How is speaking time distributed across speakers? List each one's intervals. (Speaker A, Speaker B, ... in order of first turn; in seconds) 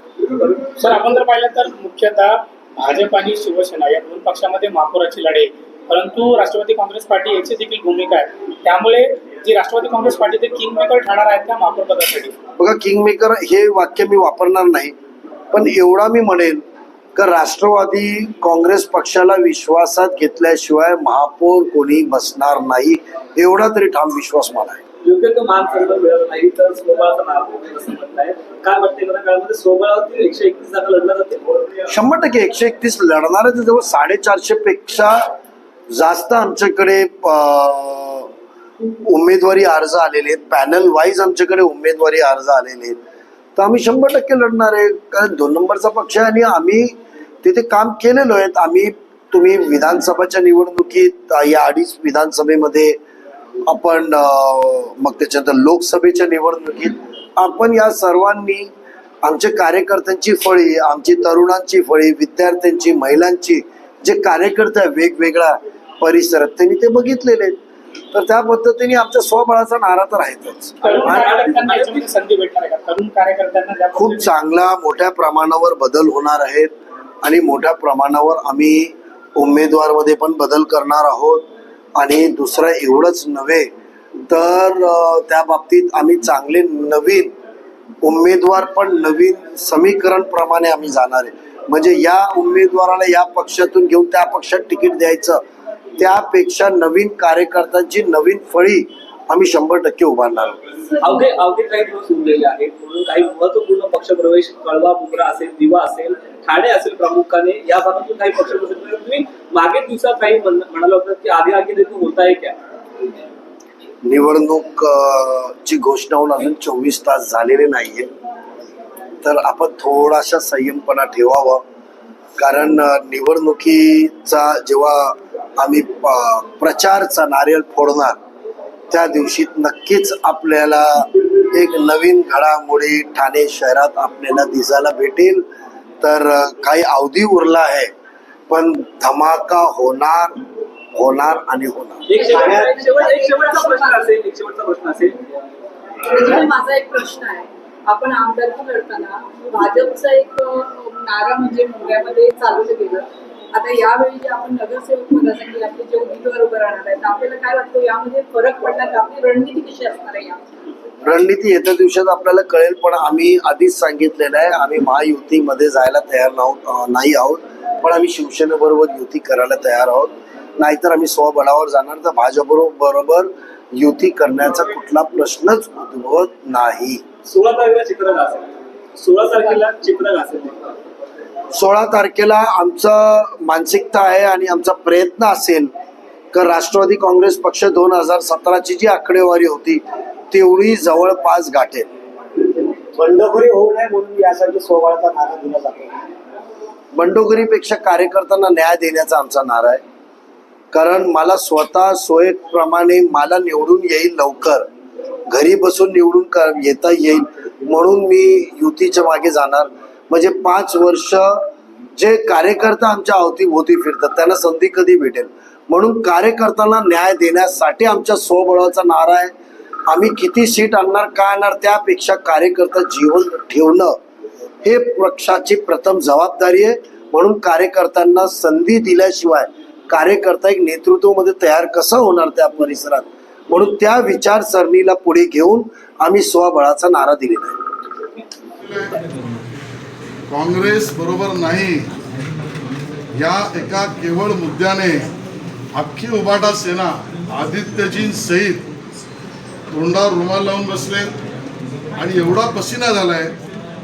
Speaker A: 0.4-0.7, 25.0-31.5, 70.8-72.1, 101.0-112.6, 142.1-145.2, 177.2-180.8
Speaker B: 0.8-12.3, 70.8-74.3
Speaker C: 12.6-14.9, 15.5-16.6, 17.2-24.8, 31.9-35.3, 35.9-38.3, 39.0-43.0, 43.6-53.0, 53.7-58.7, 59.2-67.6, 68.1-71.3, 74.0-76.7, 77.2-81.5, 82.0-83.7, 84.3-87.3, 88.0-95.4, 96.0-100.6, 114.0-118.1, 119.2-121.6, 122.4-128.2, 128.9-135.5, 136.0-137.9, 138.5-140.4, 140.9-142.4, 161.0-177.0, 181.5-185.7, 186.3-191.9, 196.9-199.8, 200.7-204.7, 205.3-211.4, 212.0-219.3, 219.9-224.0, 224.6-237.6
Speaker D: 142.2-144.1, 146.1-153.0, 153.6-160.4
Speaker E: 192.9-196.0
Speaker F: 238.6-239.1, 240.3-241.9, 243.2-245.1, 245.7-248.7, 249.7-251.1, 252.0-253.3